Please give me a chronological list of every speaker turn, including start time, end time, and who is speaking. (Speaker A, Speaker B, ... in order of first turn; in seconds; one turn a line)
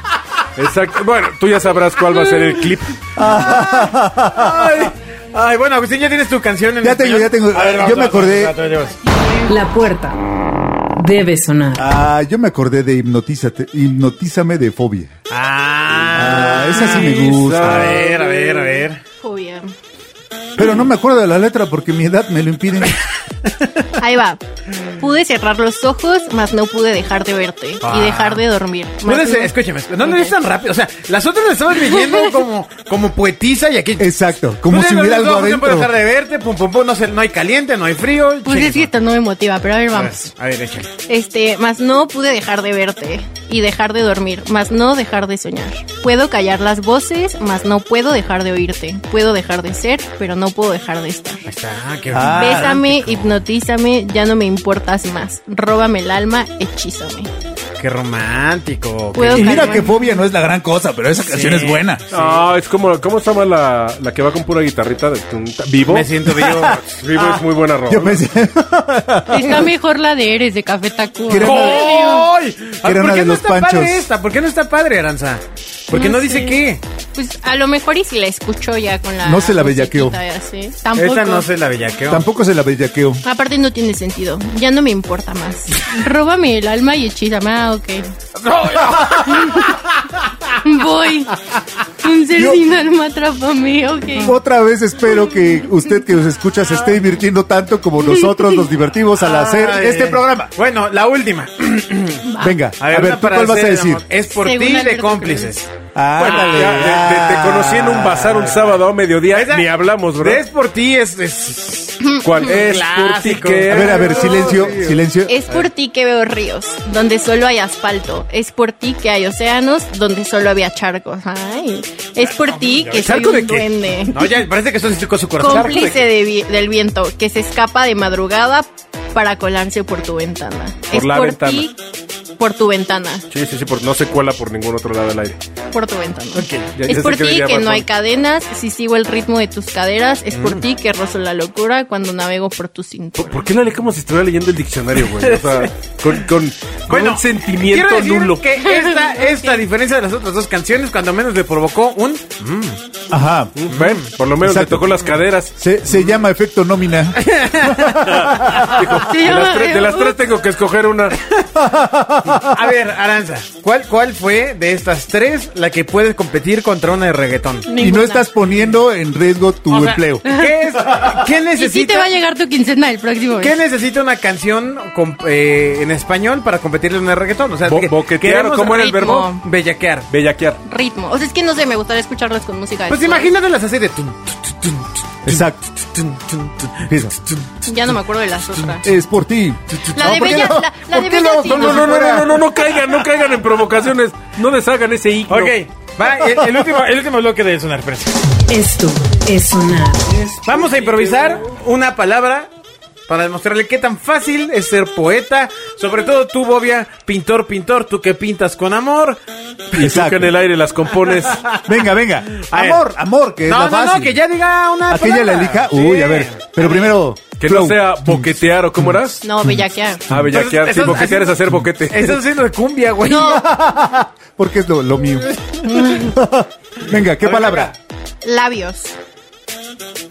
Speaker A: 0.6-3.0
Speaker B: 3.1-4.9
Speaker C: 4.3-9.0
Speaker B: 6.8-8.6
Speaker D: 9.2-9.5
Speaker E: 9.4-10.2
Speaker E: 10.9-11.9
Speaker B: 11.8-15.1
Speaker C: 15.3-19.0
Speaker B: 16.1-18.1
Speaker A: 17.0-18.8
Speaker D: 19.2-19.7
Speaker B: 20.6-23.0
Speaker D: 24.0-24.4
Speaker D: 25.0-30.3
Speaker C: 27.8-28.4
Speaker C: 29.0-38.9
Speaker B: 34.0-35.9
Speaker D: 38.5-40.2
Speaker C: 39.9-40.9
Speaker D: 41.1-51.5
Speaker C: 51.5-53.3
Speaker B: 52.1-52.8
Speaker D: 52.2-57.3
Speaker C: 57.8-59.9
Speaker D: 59.1-60.0
Speaker B: 59.2-62.0
Speaker C: 61.2-62.4
Speaker A: 62.1-68.2
Speaker C: 65.9-67.0
Speaker B: 67.9-69.7
Speaker D: 69.3-72.3
Speaker B: 71.3-72.1
Speaker C: 71.4-76.8
Speaker B: 72.8-74.1
Speaker D: 75.9-81.5
Speaker B: 79.2-80.2
Speaker C: 80.9-82.2
Speaker B: 82.1-83.2
Speaker D: 83.2-88.1
Speaker C: 88.4-89.8
Speaker D: 89.3-89.8
Speaker D: 90.6-91.3
Speaker D: 92.0-94.3
Speaker B: 92.3-92.6
Speaker B: 94.2-100.5
Speaker D: 98.0-98.7
Speaker C: 99.2-105.7
Speaker B: 102.4-104.0
Speaker D: 104.3-105.6
Speaker B: 105.9-108.3
Speaker A: 106.2-110.4
Speaker C: 106.2-106.7
Speaker C: 108.2-109.7
Speaker C: 110.2-115.7
Speaker A: 112.2-114.4
Speaker B: 113.7-115.3
Speaker D: 115.2-124.3
Speaker C: 122.4-126.1
Speaker D: 125.4-131.8
Speaker A: 130.9-131.7
Speaker D: 132.4-133.2
Speaker A: 133.3-135.4
Speaker D: 135.7-143.4
Speaker C: 136.3-136.8
Speaker A: 136.8-137.8
Speaker C: 140.3-140.6
Speaker A: 143.2-148.4
Speaker C: 145.2-145.7
Speaker C: 146.9-152.8
Speaker D: 148.7-149.5
Speaker B: 153.1-153.6
Speaker A: 153.6-155.5
Speaker C: 153.7-154.1
Speaker B: 154.4-158.8
Speaker C: 157.2-158.8
Speaker A: 158.1-161.2
Speaker D: 159.0-160.2
Speaker B: 161.5-162.7
Speaker C: 162.4-167.7
Speaker D: 167.7-168.3
Speaker B: 167.8-170.2
Speaker C: 169.7-172.1
Speaker D: 170.2-170.5
Speaker D: 171.6-173.6
Speaker C: 173.4-180.1
Speaker A: 177.6-179.3
Speaker D: 178.7-179.4
Speaker A: 180.1-180.6
Speaker D: 180.6-183.3
Speaker C: 182.9-187.5
Speaker B: 185.2-185.6
Speaker B: 186.8-187.1
Speaker D: 187.6-188.9
Speaker B: 188.8-192.4
Speaker C: 189.7-190.2
Speaker D: 189.9-192.2
Speaker A: 191.5-195.6
Speaker C: 195.3-198.2
Speaker E: 198.5-200.3
Speaker C: 200.4-202.5
Speaker C: 203.1-209.2
Speaker B: 209.7-210.3
Speaker A: 209.7-211.4
Speaker C: 211.1-211.7
Speaker B: 211.7-214.2
Speaker C: 212.4-212.8
Speaker C: 213.5-216.9
Speaker B: 214.9-219.6
Speaker A: 217.4-219.2
Speaker D: 219.2-220.0
Speaker A: 220.1-222.2
Speaker C: 220.3-221.3
Speaker C: 221.9-223.5
Speaker D: 223.0-223.5
Speaker B: 223.2-227.7
Speaker D: 225.6-226.1
Speaker C: 227.2-227.7
Speaker D: 228.2-228.9